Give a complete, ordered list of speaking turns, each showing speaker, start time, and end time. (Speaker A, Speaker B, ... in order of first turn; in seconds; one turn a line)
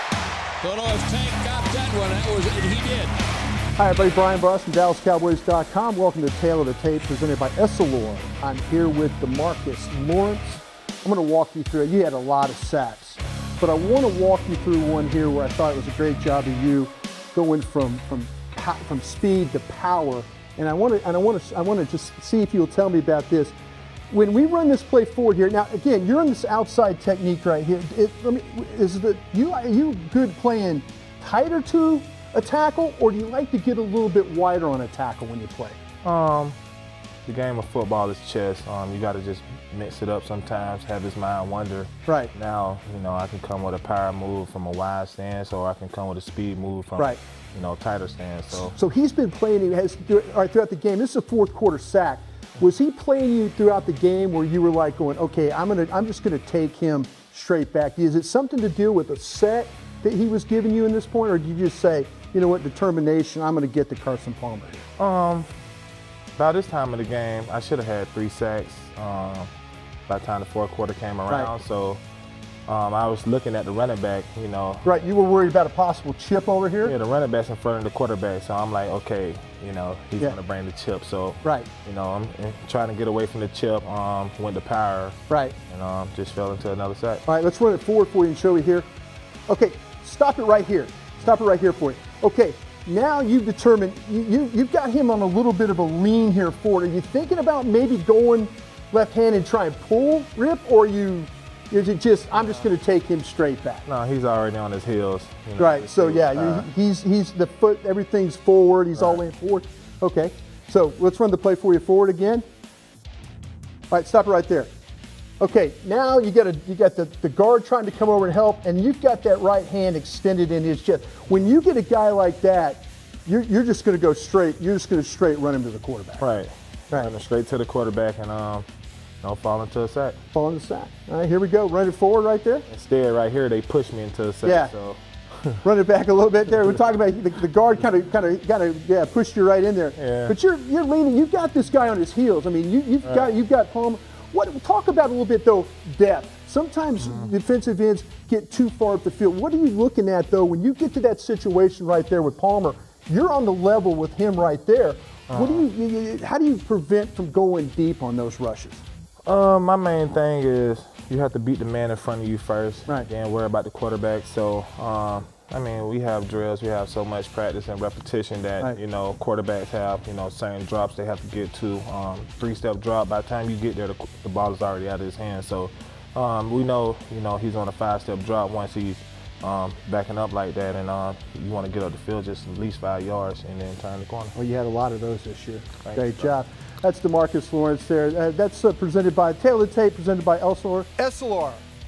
Speaker A: 0.6-3.2
Speaker B: 3.8-23.6
Speaker B: 24.1-35.8
Speaker C: 36.0-36.6
Speaker C: 37.3-48.8
Speaker B: 42.1-42.3
Speaker B: 48.5-64.9
Speaker C: 65.0-65.5
Speaker C: 66.4-69.5
Speaker C: 70.1-72.0
Speaker C: 72.7-74.9
Speaker B: 74.8-77.0
Speaker C: 76.8-85.2
Speaker B: 81.4-81.7
Speaker B: 85.3-85.6
Speaker C: 85.7-87.2
Speaker B: 87.3-88.9
Speaker B: 89.5-103.9
Speaker C: 103.9-106.7
Speaker B: 105.6-112.5
Speaker C: 109.0-109.2
Speaker B: 113.9-114.7
Speaker B: 115.4-126.3
Speaker C: 126.2-128.7
Speaker C: 129.2-130.2
Speaker B: 130.3-132.7
Speaker C: 132.7-135.6
Speaker B: 134.4-134.7
Speaker B: 135.6-158.8
Speaker C: 140.0-140.4
Speaker C: 147.0-147.3
Speaker C: 155.3-155.7
Speaker C: 159.3-184.4
Speaker B: 184.3-191.7
Speaker C: 185.8-186.3